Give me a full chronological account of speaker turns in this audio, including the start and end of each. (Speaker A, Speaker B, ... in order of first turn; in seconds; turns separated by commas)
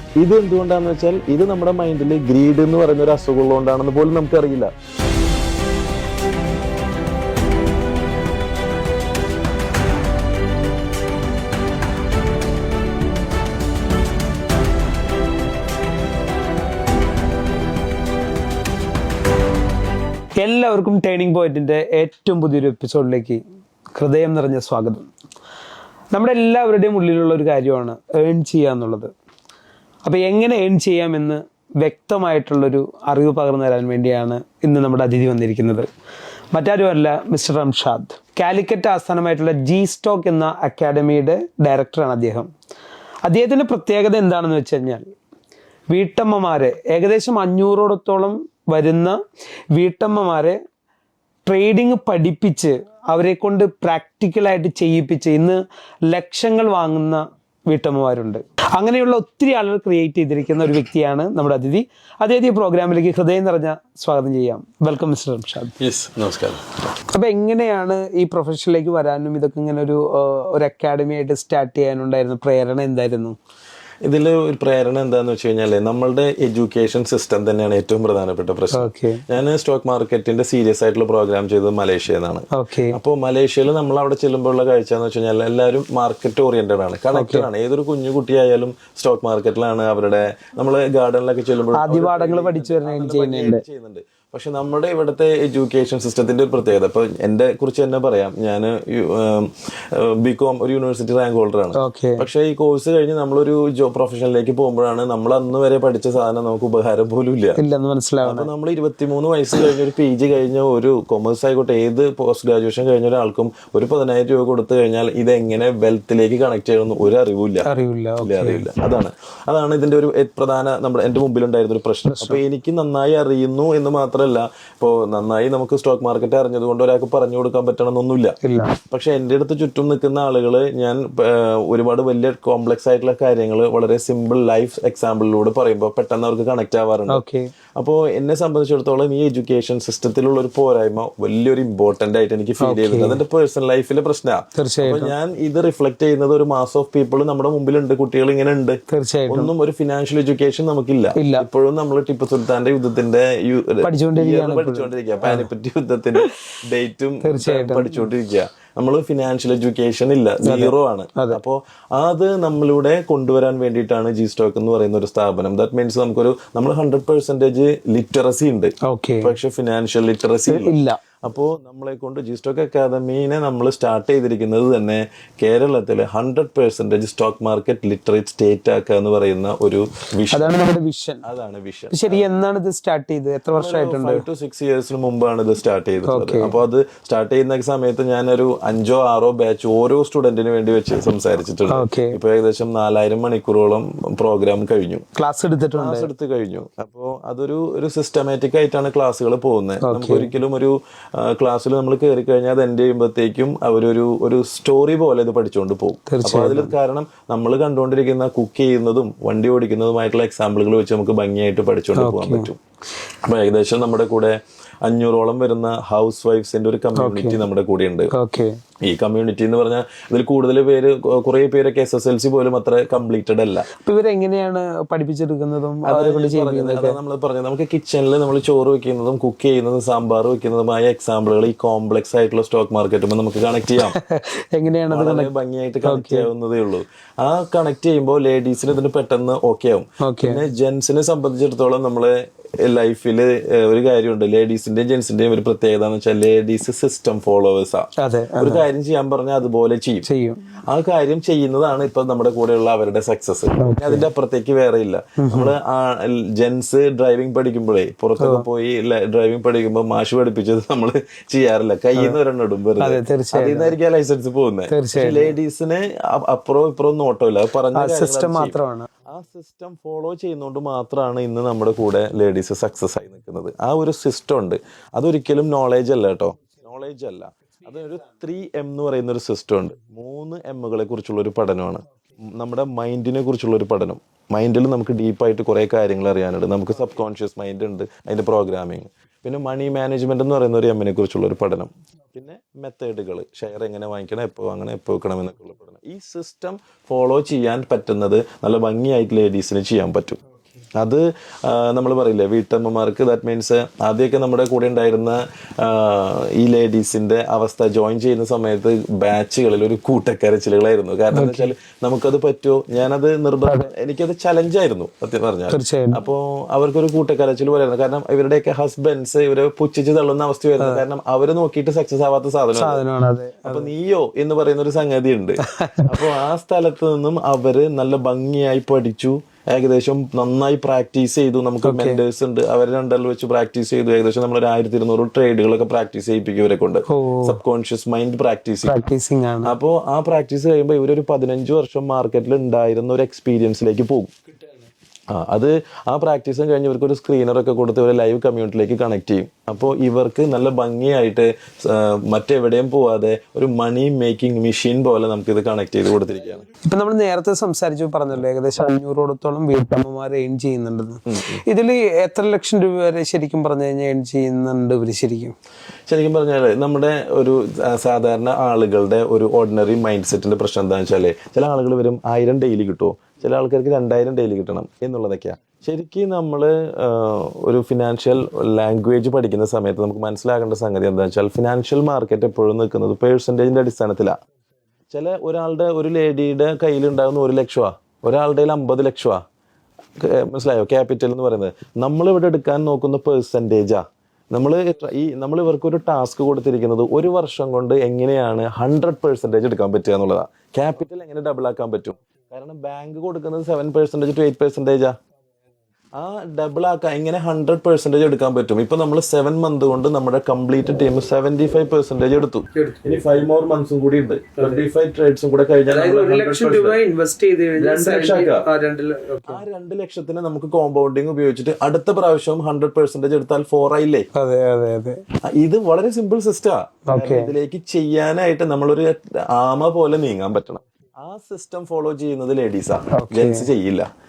Speaker A: 0.2-4.7, Speaker B: 20.4-23.4, Speaker B: 23.9-25.1, Speaker B: 26.1-29.1, Speaker B: 30.0-35.9, Speaker B: 36.5-42.5, Speaker B: 43.2-45.0, Speaker B: 45.9-49.2, Speaker B: 49.7-50.6, Speaker B: 51.5-65.7, Speaker A: 65.8-66.7, Speaker B: 67.1-73.4, Speaker A: 74.0-107.6, Speaker B: 78.7-79.2, Speaker B: 82.5-83.0, Speaker B: 87.1-87.5, Speaker B: 91.7-93.6, Speaker B: 101.7-102.2, Speaker B: 107.5-108.5, Speaker A: 108.2-117.7, Speaker B: 117.6-118.7, Speaker A: 118.2-128.4, Speaker B: 122.0-122.4, Speaker B: 128.4-128.8, Speaker A: 128.9-137.2, Speaker B: 137.1-137.5, Speaker A: 137.8-180.5, Speaker B: 142.6-143.2, Speaker B: 144.5-145.1, Speaker B: 148.9-149.5, Speaker B: 151.2-151.4, Speaker B: 153.8-155.5, Speaker B: 157.2-158.1, Speaker B: 160.4-161.4, Speaker B: 168.8-169.3, Speaker B: 170.5-171.0, Speaker B: 180.3-181.2, Speaker A: 181.2-182.2, Speaker B: 181.9-184.2, Speaker A: 183.5-195.1, Speaker B: 186.1-186.5, Speaker B: 191.7-192.2, Speaker B: 195.2-196.1, Speaker A: 195.7-212.6, Speaker B: 199.8-200.3, Speaker B: 206.1-206.7, Speaker B: 211.9-212.5, Speaker A: 213.2-218.1, Speaker B: 216.9-217.4, Speaker B: 218.1-218.6, Speaker A: 218.8-223.7, Speaker B: 223.7-227.0, Speaker A: 225.8-234.0, Speaker B: 233.9-235.3, Speaker A: 234.9-250.1, Speaker B: 235.8-236.3, Speaker B: 240.0-240.4, Speaker B: 248.0-248.7, Speaker B: 250.1-250.4, Speaker A: 250.7-268.5, Speaker B: 253.6-254.1, Speaker B: 255.2-255.5, Speaker B: 258.2-258.4, Speaker B: 262.8-263.8, Speaker B: 264.7-265.3, Speaker B: 267.7-268.9, Speaker A: 269.1-300.2, Speaker A: 300.8-322.8, Speaker B: 311.1-311.5, Speaker B: 313.4-313.7, Speaker B: 315.5-316.0, Speaker B: 322.5-323.7, Speaker A: 323.4-338.8, Speaker B: 325.4-326.1, Speaker B: 331.6-332.0, Speaker B: 336.9-337.4, Speaker B: 338.6-339.5, Speaker A: 339.4-344.1, Speaker A: 345.1-356.4, Speaker B: 356.6-365.3, Speaker A: 361.1-361.4, Speaker A: 365.9-384.2, Speaker A: 384.9-389.2, Speaker A: 390.0-404.9, Speaker A: 405.9-416.8, Speaker B: 412.5-412.9, Speaker B: 414.4-414.6, Speaker B: 415.7-419.4, Speaker A: 417.6-418.4, Speaker A: 419.3-424.1, Speaker B: 424.1-425.0, Speaker A: 425.3-433.9, Speaker B: 426.9-427.3, Speaker B: 432.9-433.5